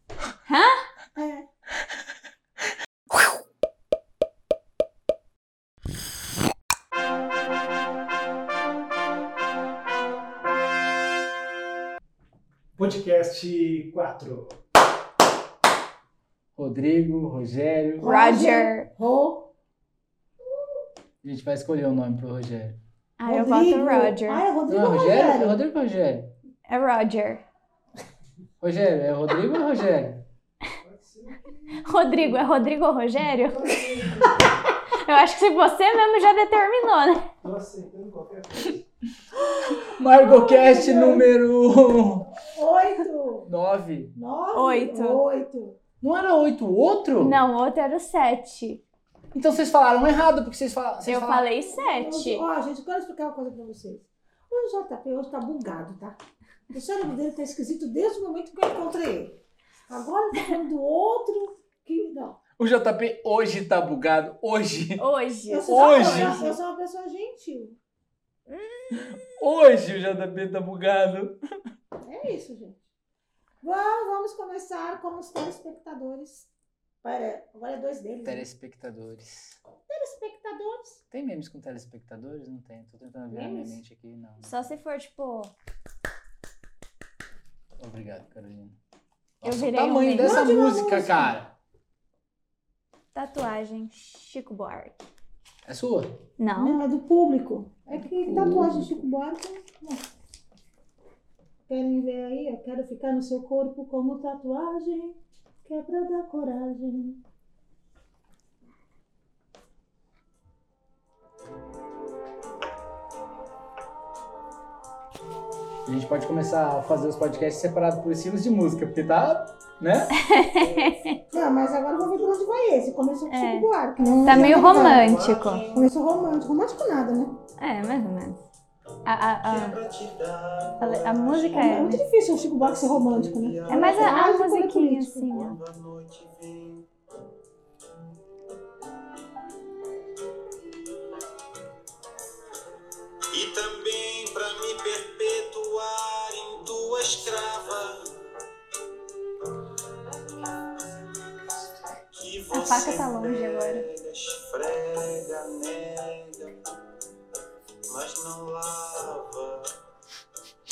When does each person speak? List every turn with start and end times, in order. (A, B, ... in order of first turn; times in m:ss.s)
0:00.4-0:00.9 A
0:01.2-0:01.5 B
0:12.8-0:14.5 C
0:16.6-0:18.0 D
0:18.0-0:19.5 B
0:18.0-0:18.9 A
0:21.2-0:22.8 D
0:23.2-0:24.4 A
0:23.2-0:25.6 B
0:24.7-0:26.3 D
0:26.7-0:27.4 A
0:28.6-0:30.2 D
0:30.8-0:32.3 C
0:31.8-0:33.9 A
0:33.4-0:34.4 C
0:34.8-0:37.3 A
0:37.4-0:38.8 C
0:39.4-0:41.2 B
0:39.8-0:42.3 D
0:42.4-0:43.5 B
0:43.4-0:44.1 D
0:44.2-0:45.8 B
0:44.5-0:45.2 A
0:46.0-0:47.4 D
0:47.2-0:48.8 A
0:49.3-0:51.5 D
0:51.1-0:52.4 A
0:51.6-0:56.2 B
0:56.7-1:02.4 B
1:02.6-1:05.0 D
1:05.0-1:06.6 A
1:05.5-1:07.8 B
1:05.7-1:06.4 D
1:08.5-1:09.2 A
1:08.9-1:11.4 D
1:12.0-1:12.9 B
1:13.6-1:16.5 B
1:17.0-1:18.5 B
1:18.2-1:19.6 D
1:19.9-1:21.0 B
1:21.1-1:24.7 D
1:23.3-1:23.8 B
1:24.4-1:25.5 A
1:27.8-1:28.8 D
1:29.4-1:31.5 D
1:29.4-1:30.4 A
1:30.2-1:31.4 B
1:33.1-1:35.1 A
1:35.6-1:36.2 D
1:36.4-1:36.8 A
1:36.6-1:40.0 B
1:38.0-1:39.0 D
1:41.7-1:47.2 B
1:55.8-2:00.1 D
2:00.2-2:01.2 A
2:00.5-2:01.1 E
2:01.3-2:05.2 B
2:03.3-2:05.7 A
2:04.3-2:05.8 E
2:05.7-2:07.4 B
2:07.6-2:08.4 A
2:09.0-2:09.8 A
2:09.4-2:14.1 E
2:10.8-2:12.0 A
2:11.6-2:15.4 B
2:13.7-2:15.6 A
2:15.3-2:16.8 E
2:23.3-2:28.1 E
2:32.1-2:36.5 E
2:32.5-2:33.8 A
2:37.9-2:39.7 E